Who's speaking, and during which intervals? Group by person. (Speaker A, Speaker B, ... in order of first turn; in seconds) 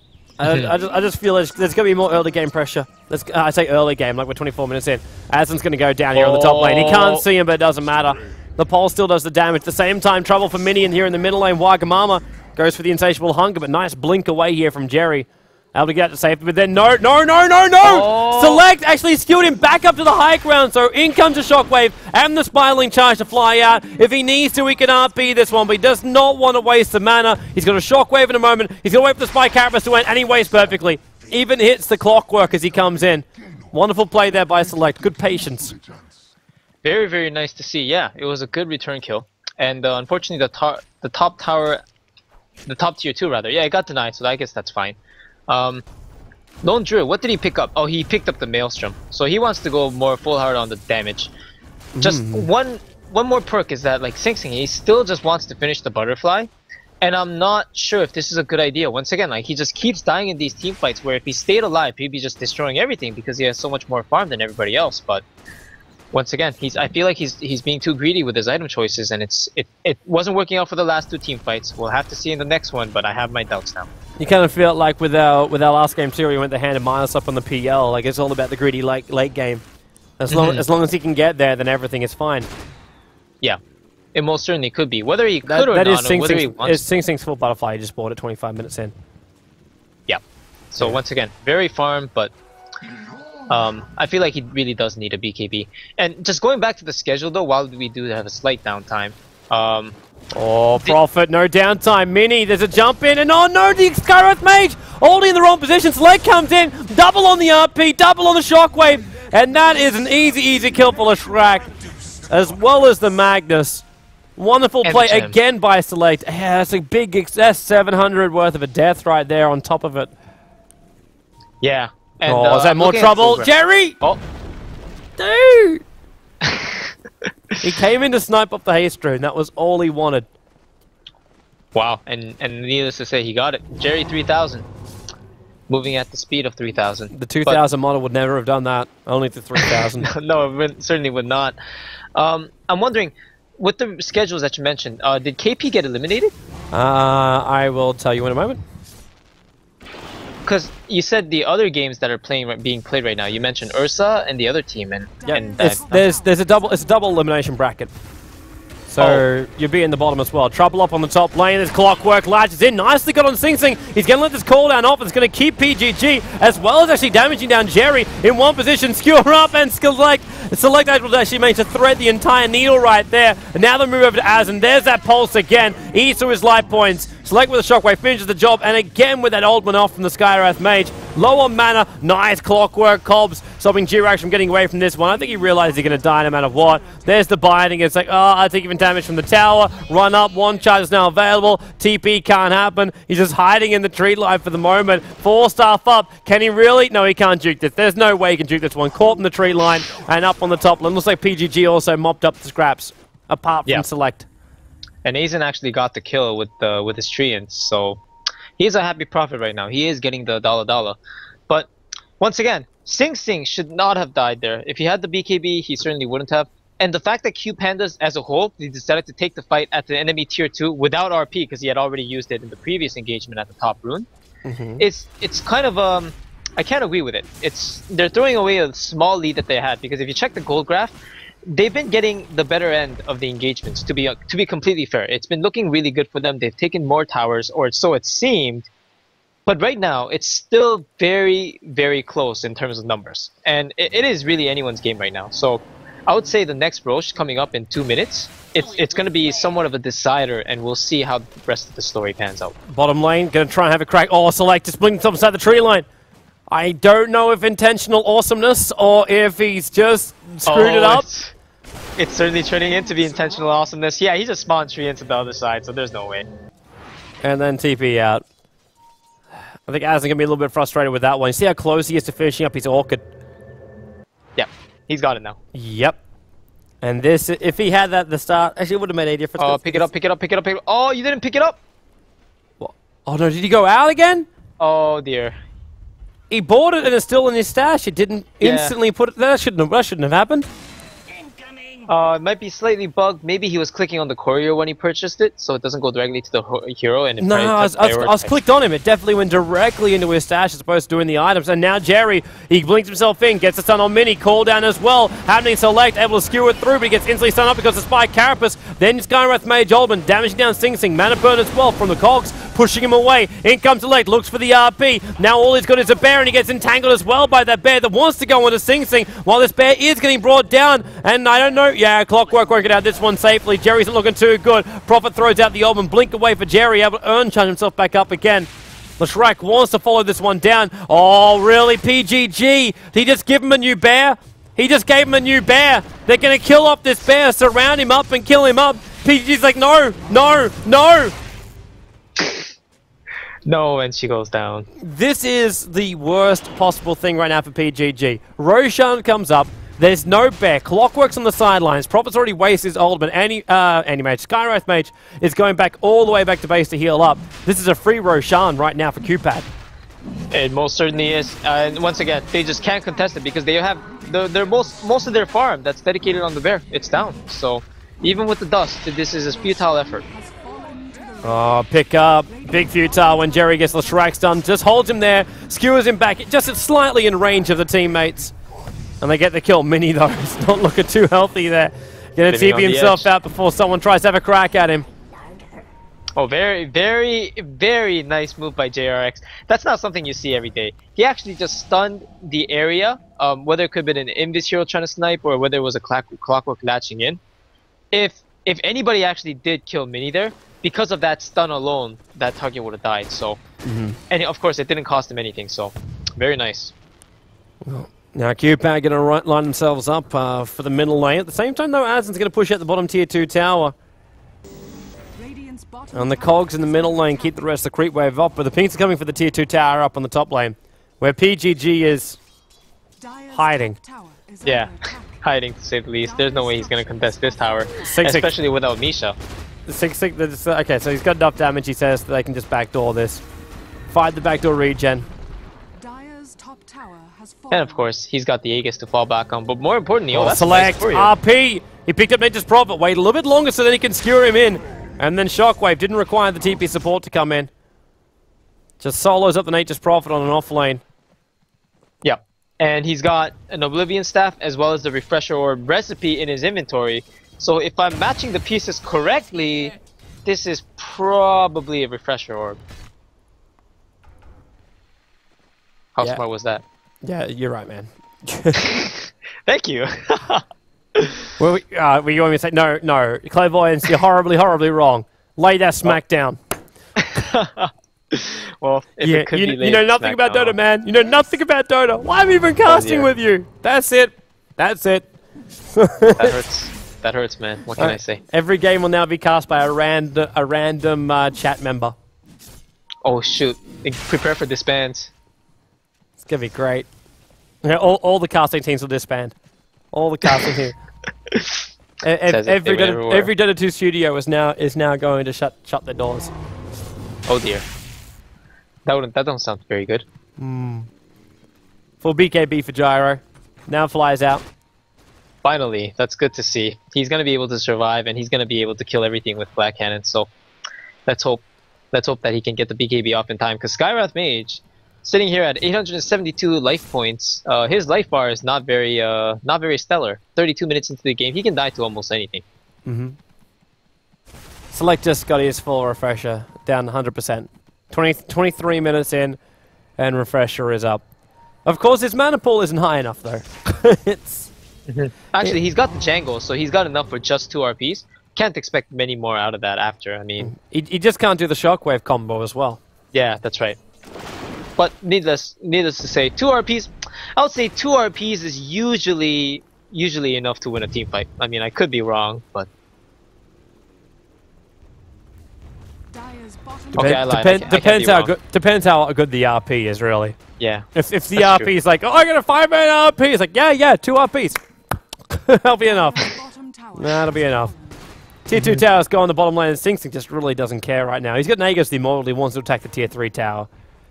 Speaker A: 0.4-35.8, 52.0-52.5, 74.2-79.6, 80.2-82.5, 85.5-88.9, 100.3-111.7, 112.2-113.8, 114.4-120.1, 122.3-124.0, 125.2-125.8, 127.6-130.3, 137.1-140.1, 146.7-148.6, 155.3-157.9, 158.9-204.3, 224.4-224.8, 252.7-255.9, 256.5-261.1, 267.2-268.2, 269.7-273.0, 275.5-276.0, 276.8-279.9, 282.6-284.3, 286.3-290.5, 297.2-341.1, 344.8-359.5, 371.2-378.3, 379.0-384.9, 403.6-404.0, 407.6-413.8, 415.9-422.2, 423.3-423.8, 427.8-428.3, 429.7-433.2, 433.9-435.1, 440.1-447.5, 448.8-450.8, 467.0-468.8, 471.4-476.4, 479.0-485.1, 485.7-486.3, 487.8-491.9, 496.2-496.9, 497.6-499.3, 499.9-500.8, 502.0-506.3, 510.4-510.9, 512.0-514.4, 532.9-533.2, 534.7-539.4, 540.0-541.0, 541.6-544.5, 550.4-552.8, 567.0-570.4, 571.0-574.6, 575.3-576.4, 577.0-577.7, 578.5-583.7
Speaker B: 0.5-0.7, 6.1-7.2, 17.8-18.6, 36.8-41.8, 42.7-45.9, 46.6-51.3, 52.0-56.5, 57.0-65.2, 66.1-73.9, 80.3-80.6, 84.1-86.8, 90.7-92.3, 93.5-100.0, 114.8-115.3, 121.6-124.2, 126.4-126.9, 131.8-134.7, 135.7-137.6, 139.6-141.6, 142.2-146.3, 150.5-155.9, 159.0-159.2, 205.0-208.0, 208.6-211.0, 211.5-224.1, 224.8-230.9, 231.5-238.7, 239.5-252.6, 260.5-261.3, 262.0-266.3, 274.4-275.4, 279.4-281.6, 284.6-285.4, 288.4-288.8, 291.9-298.4, 342.2-342.4, 343.5-344.7, 360.3-370.0, 382.3-383.1, 386.2-397.2, 397.9-403.4, 404.1-406.7, 424.4-429.2, 437.5-441.1, 452.0-462.6, 466.0-466.6, 468.6-470.4, 471.0-471.3, 477.0-480.6, 482.6-483.1, 486.1-488.2, 493.1-495.1, 501.3-501.6, 502.3-503.3, 507.3-507.7, 508.9-510.1, 515.4-520.3, 521.1-532.5, 544.9-550.5, 553.1-553.8, 554.8-562.7, 566.9-568.3, 570.6-571.7, 578.5-578.8
Speaker C: 0.5-2.5, 155.2-157.4, 185.2-187.2, 361.1-365.1, 369.1-375.3, 415.1-417.5, 423.0-425.3, 426.0-428.2, 435.8-437.9, 566.1-567.8, 575.8-578.1